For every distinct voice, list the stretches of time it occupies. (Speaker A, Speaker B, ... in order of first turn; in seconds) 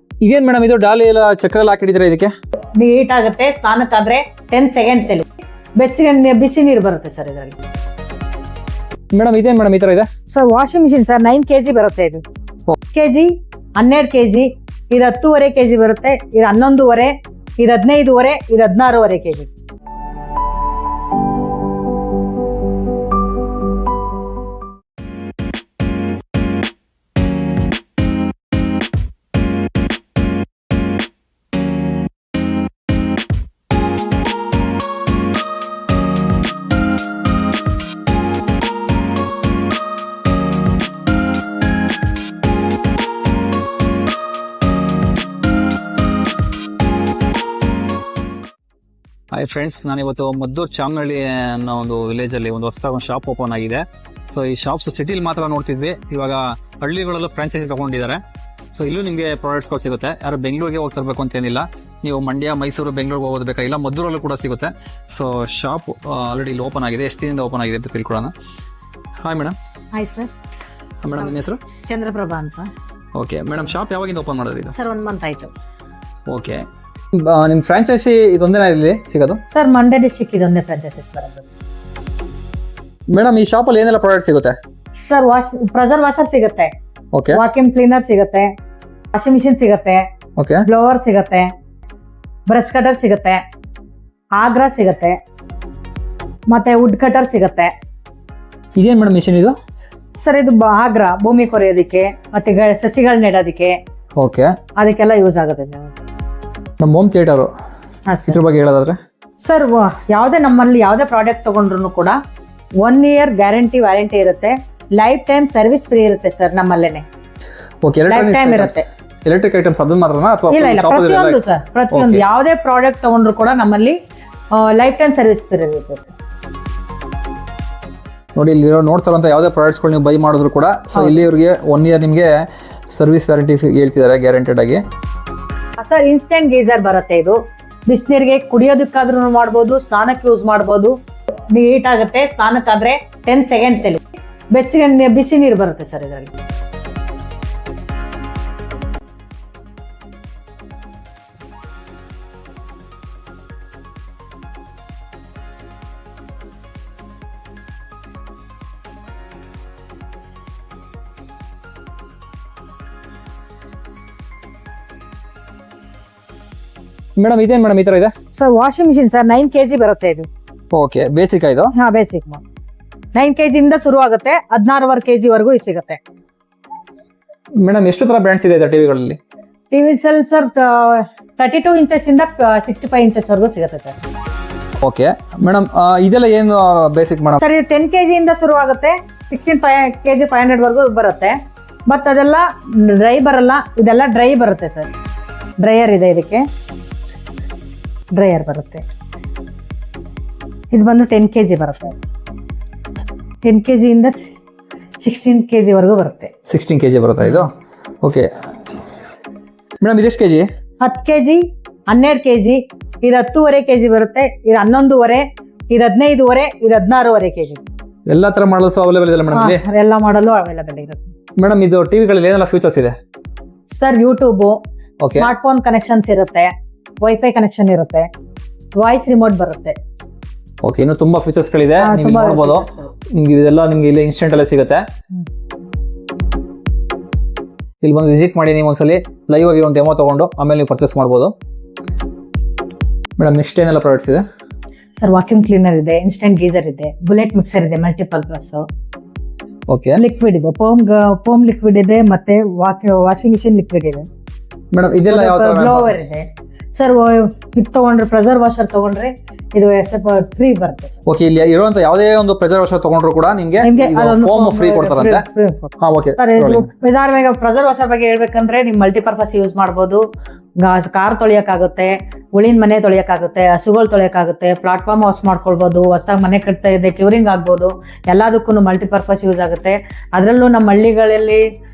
Speaker A: 0.2-2.3, 9.1-10.1, 49.3-68.3, 69.2-69.5, 71.0-71.6, 73.2-74.7, 76.3-79.4, 83.1-84.6, 87.1-87.4, 90.4-90.7, 98.8-99.5, 104.2-104.5, 106.8-107.5, 108.3-109.0, 117.8-121.4, 121.9-122.2, 128.4-134.8, 167.2-168.1, 170.7-171.7, 177.6-179.2, 184.8-187.4, 206.5-207.5, 208.0-208.3, 209.8-210.5, 218.1-219.6, 221.4-222.9, 225.0-225.3, 230.6-234.8, 237.8-241.3, 243.2-244.2, 249.7-250.0, 254.7-255.9, 261.1-265.2, 265.8-266.7
Speaker B: 2.7-7.5, 10.3-12.2, 12.9-19.5, 69.9-70.3, 71.2-72.7, 74.7-75.5, 79.5-81.5, 85.0-86.7, 87.3-88.5, 89.1-90.0, 90.7-91.5, 92.5-93.4, 94.4-95.2, 96.5-97.7, 100.2-103.8, 104.8-106.0, 108.1-108.3, 109.4-112.2, 112.8-117.0, 118.1-118.8, 120.5-124.0, 124.5-126.1, 135.8-140.9, 141.5-146.3, 168.3-170.3, 171.7-172.4, 173.1-176.0, 179.7-184.0, 187.4-194.9, 195.6-196.4, 198.1-198.8, 200.7-202.0, 203.4-204.3, 205.0-206.3, 210.8-217.6, 219.3-221.1, 223.7-224.6, 225.1-228.1, 228.8-229.8, 231.8-232.9, 245.0-248.6, 249.9-254.1, 255.1-261.0, 263.6-270.0, 270.6-281.4